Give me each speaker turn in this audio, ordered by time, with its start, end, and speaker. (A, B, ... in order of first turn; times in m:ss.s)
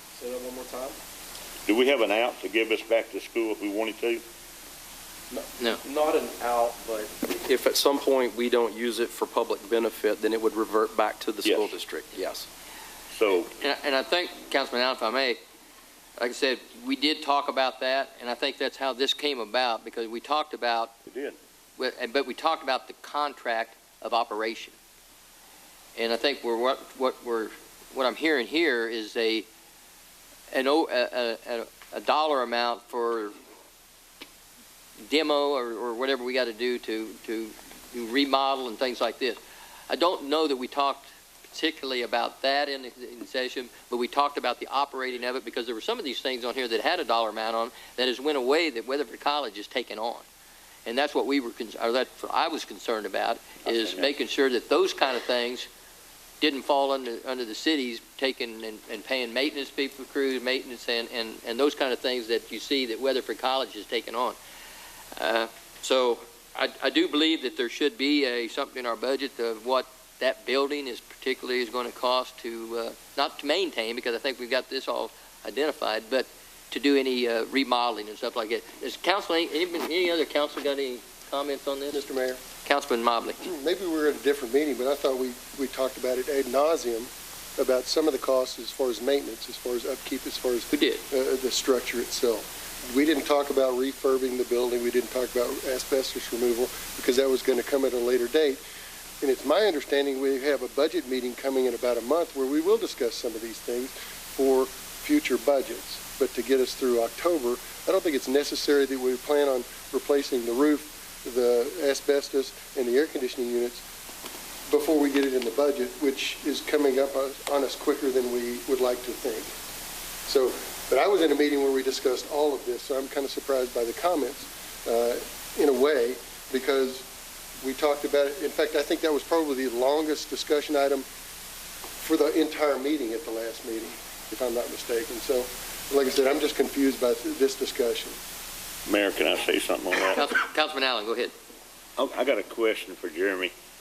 0:00.2-0:01.0 A
0:01.7-0:04.2 B
0:05.3-0:12.5 A
0:11.4-0:11.8 B
0:13.1-0:13.5 B
0:13.6-0:15.4 C
0:16.2-0:20.9 C
0:21.1-0:21.4 B
0:21.8-0:24.8 C
0:26.0-0:29.5 C
0:30.5-0:33.4 C
0:35.1-0:50.2 C
0:50.9-0:55.7 C
0:53.7-0:54.1 B
0:56.4-1:04.4 C
1:05.2-1:22.0 C
1:21.9-1:22.4 D
1:22.6-1:23.4 C
1:23.4-1:38.6 D
1:30.7-1:31.0 C
1:39.2-1:53.8 D
1:54.7-1:59.5 D
2:00.3-2:07.1 D
2:07.6-2:11.1 D
2:12.0-2:18.2 D
2:18.9-2:20.3 B
2:20.1-2:21.3 C
2:22.0-2:23.5 B